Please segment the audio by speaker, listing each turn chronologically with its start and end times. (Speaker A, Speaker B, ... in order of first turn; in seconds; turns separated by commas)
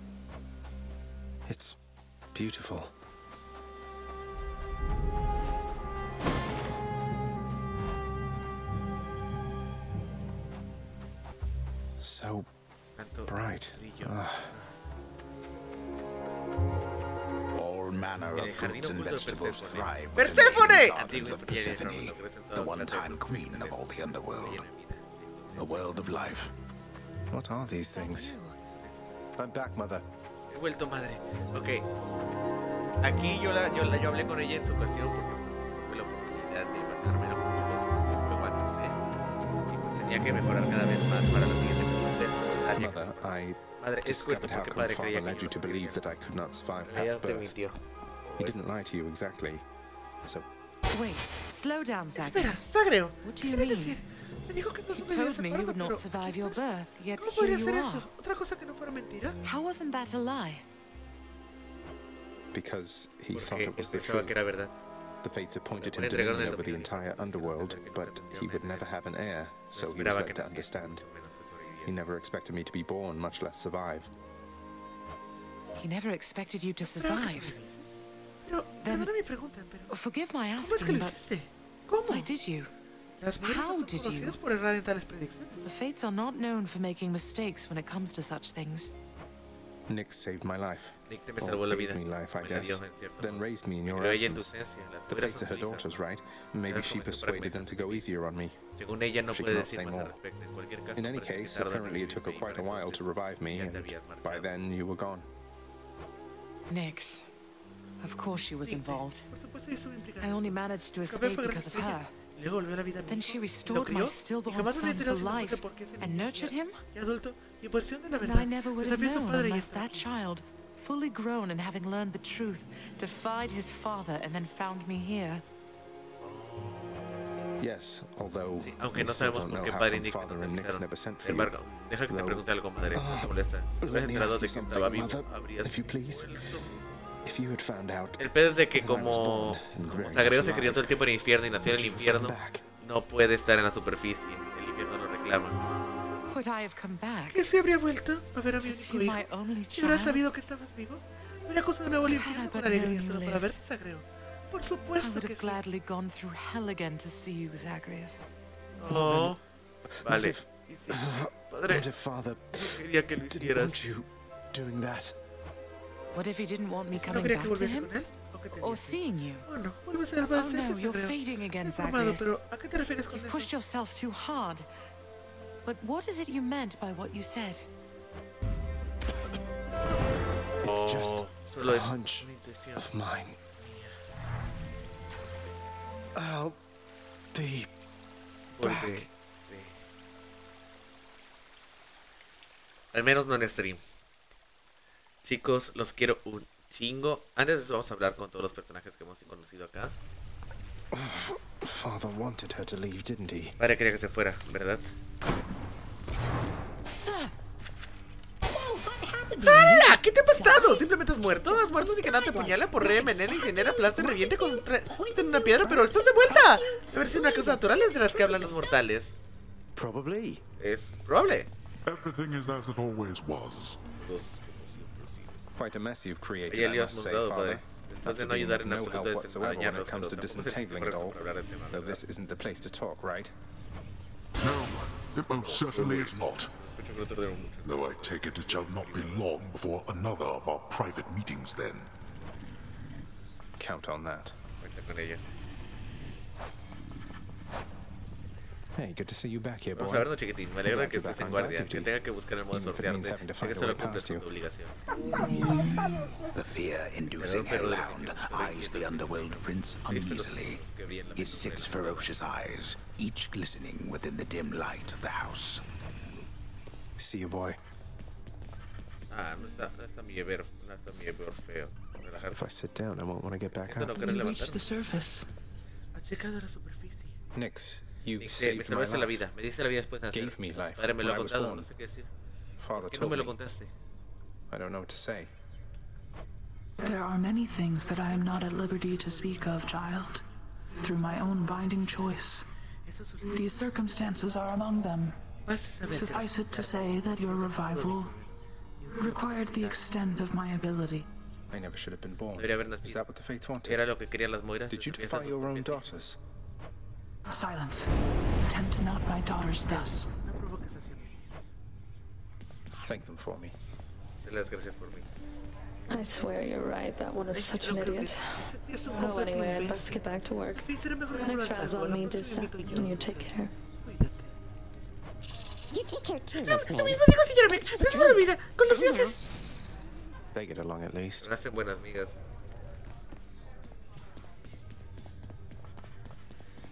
Speaker A: 1.4-1.8, Speaker A: 2.3-2.9, Speaker A: 12.0-12.5, Speaker B: 13.0-14.7, Speaker A: 13.2-14.5, Speaker C: 17.5-24.7, Speaker B: 18.2-26.3, Speaker C: 25.5-26.5, Speaker A: 27.3-28.3, Speaker D: 27.9-28.5, Speaker B: 28.5-29.2, Speaker A: 29.4-30.0, Speaker B: 30.5-31.9, Speaker B: 33.0-39.0, Speaker B: 39.7-46.0, Speaker A: 42.7-47.5, Speaker B: 46.8-48.6, Speaker A: 48.4-49.6, Speaker D: 50.9-54.0, Speaker B: 52.1-59.4, Speaker D: 54.9-58.1, Speaker D: 59.4-60.6, Speaker A: 62.5-64.4, Speaker B: 63.3-64.7, Speaker A: 65.2-71.0, Speaker B: 65.8-68.9, Speaker B: 69.7-72.0, Speaker A: 71.8-74.1, Speaker D: 75.7-77.6, Speaker B: 76.8-77.9, Speaker B: 78.5-80.0, Speaker D: 78.8-79.1, Speaker D: 79.9-81.2, Speaker B: 80.5-82.3, Speaker D: 82.0-82.7, Speaker B: 83.2-85.7, Speaker D: 83.4-84.4, Speaker D: 85.6-88.9, Speaker A: 89.9-94.5, Speaker B: 91.1-96.0, Speaker A: 95.1-98.6, Speaker B: 96.7-98.0, Speaker B: 98.8-104.5, Speaker A: 99.3-100.2, Speaker A: 101.0-105.3, Speaker D: 106.7-107.3, Speaker D: 108.0-109.3, Speaker B: 108.6-120.1, Speaker D: 110.2-112.1, Speaker D: 113.0-116.8, Speaker D: 118.1-125.4, Speaker B: 126.2-127.2, Speaker A: 127.6-131.5, Speaker B: 128.6-136.7, Speaker A: 132.1-136.5, Speaker A: 137.2-141.0, Speaker B: 138.2-145.6, Speaker C: 140.0-140.2, Speaker A: 141.6-142.6, Speaker D: 146.3-147.5, Speaker B: 147.3-155.6, Speaker D: 148.6-150.3, Speaker D: 152.1-153.6, Speaker D: 155.0-158.2, Speaker B: 158.8-159.4, Speaker A: 158.8-159.4, Speaker A: 159.9-165.2, Speaker B: 160.0-161.9, Speaker B: 162.5-163.7, Speaker D: 166.1-167.9, Speaker B: 166.9-173.5, Speaker D: 168.6-169.5, Speaker D: 170.3-172.4, Speaker D: 173.1-174.7, Speaker D: 175.6-177.7, Speaker B: 180.6-182.9, Speaker A: 180.6-183.4, Speaker B: 183.5-184.0, Speaker A: 186.1-186.6, Speaker A: 187.3-187.7, Speaker B: 188.5-189.8, Speaker A: 188.6-189.1, Speaker B: 192.9-193.8, Speaker B: 195.2-199.9, Speaker A: 200.9-203.6, Speaker B: 203.6-204.9, Speaker E: 208.5-217.7, Speaker B: 209.4-219.1, Speaker D: 213.1-213.5, Speaker D: 216.3-216.6, Speaker E: 218.3-218.7, Speaker A: 219.7-220.4, Speaker B: 220.6-221.5, Speaker F: 221.8-223.8, Speaker B: 223.9-225.4, Speaker A: 225.6-233.3, Speaker B: 226.5-232.0, Speaker F: 234.4-236.5, Speaker B: 235.4-239.3, Speaker F: 237.6-241.9, Speaker A: 243.6-244.3, Speaker B: 244.6-245.2, Speaker A: 248.7-250.1, Speaker B: 249.8-254.8, Speaker A: 250.6-251.9, Speaker A: 252.5-254.2, Speaker C: 256.3-260.6, Speaker B: 257.1-262.1, Speaker C: 261.1-265.6, Speaker A: 267.0-267.6, Speaker B: 269.1-272.4, Speaker A: 272.3-274.0, Speaker B: 273.6-274.6, Speaker G: 273.9-275.3, Speaker B: 275.9-277.2, Speaker A: 277.3-279.2, Speaker B: 278.2-282.1, Speaker A: 280.1-281.7, Speaker A: 282.6-283.3, Speaker B: 282.7-283.7, Speaker A: 284.5-285.3, Speaker G: 286.8-290.2, Speaker B: 287.8-289.8, Speaker G: 290.8-292.4, Speaker B: 292.9-293.7, Speaker G: 293.3-295.2, Speaker B: 295.4-299.8, Speaker G: 295.8-298.1, Speaker G: 298.9-301.1, Speaker A: 301.5-303.9, Speaker B: 302.3-303.0, Speaker B: 303.6-305.8, Speaker A: 304.7-306.2, Speaker G: 307.3-307.9, Speaker G: 308.5-310.1, Speaker B: 309.5-311.5, Speaker A: 312.8-313.5, Speaker B: 314.2-315.1, Speaker H: 315.9-323.5, Speaker B: 317.3-323.3, Speaker B: 323.8-324.3, Speaker E: 325.7-327.1, Speaker B: 326.3-329.2, Speaker E: 327.8-329.1, Speaker A: 330.3-331.3, Speaker B: 331.2-332.1